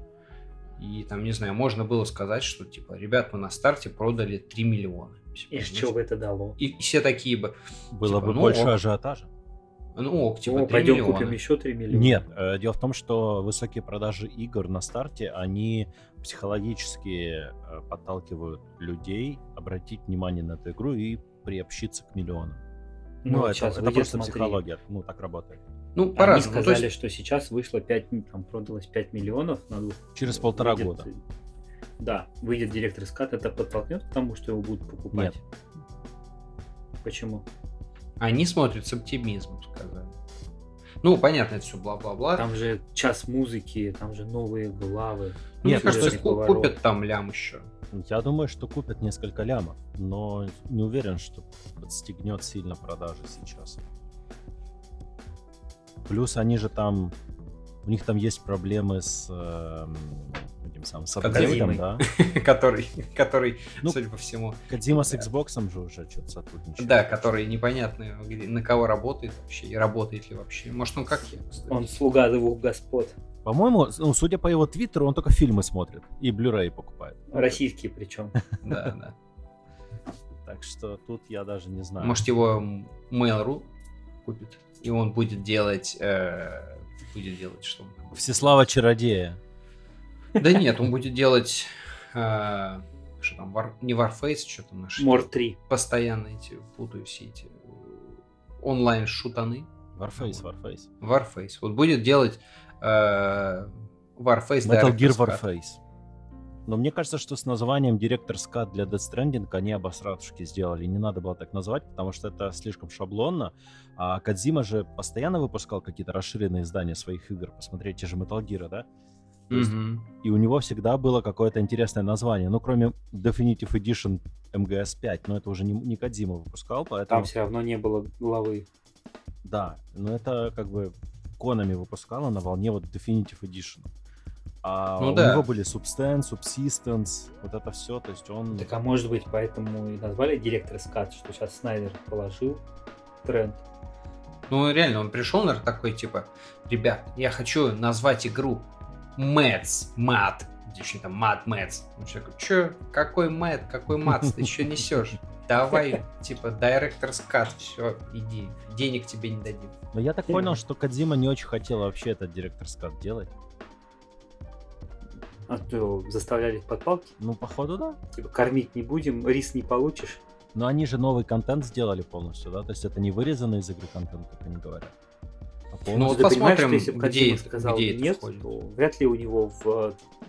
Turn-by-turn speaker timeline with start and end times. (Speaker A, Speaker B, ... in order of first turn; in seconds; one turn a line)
Speaker A: 0.8-6.0
Speaker B: 5.5-6.6
Speaker A: 6.6-8.8
Speaker C: 7.9-9.3
Speaker A: 9.9-11.4
Speaker B: 10.5-12.2
Speaker C: 11.9-22.6
Speaker B: 23.2-24.6
Speaker C: 23.3-25.6
Speaker A: 26.0-26.9
Speaker B: 26.2-31.2
Speaker C: 30.1-31.1
Speaker B: 32.0-35.4
Speaker C: 35.1-35.4
Speaker B: 37.0-37.5
Speaker A: 38.2-40.1
Speaker A: 41.0-42.5
Speaker B: 42.4-46.8
Speaker A: 45.6-47.7
Speaker C: 45.6-46.2
Speaker C: 47.9-53.8
Speaker C: 56.1-57.1
Speaker C: 57.8-62.0
Speaker A: 61.2-65.3
Speaker B: 61.3-61.8
Speaker C: 64.7-67.1
Speaker A: 66.8-71.8
Speaker B: 71.7-73.2
Speaker C: 73.4-77.6
Speaker B: 77.3-78.4
Speaker C: 78.4-78.9
Speaker A: 78.6-79.2
Speaker C: 80.5-82.2
Speaker A: 82.0-83.7
Speaker A: 84.2-88.5
Speaker C: 88.1-89.4
Speaker A: 90.4-100.4
Speaker B: 95.0-95.6
Speaker C: 100.0-100.9
Speaker A: 101.0-105.4
Speaker C: 104.6-105.8
Speaker C: 106.7-118.9
Speaker A: 119.5-120.1
Speaker C: 119.5-127.3
Speaker B: 127.1-128.7
Speaker C: 129.4-133.9
Speaker C: 134.6-138.7
Speaker A: 135.0-135.5
Speaker B: 138.6-142.6
Speaker B: 143.2-143.6
Speaker A: 144.5-159.8
Speaker C: 159.9-163.3
Speaker B: 165.5-167.2
Speaker C: 167.2-168.0
Speaker B: 168.1-170.2
Speaker C: 170.5-174.9
Speaker C: 175.7-176.4
Speaker A: 175.9-178.5
Speaker B: 176.0-180.0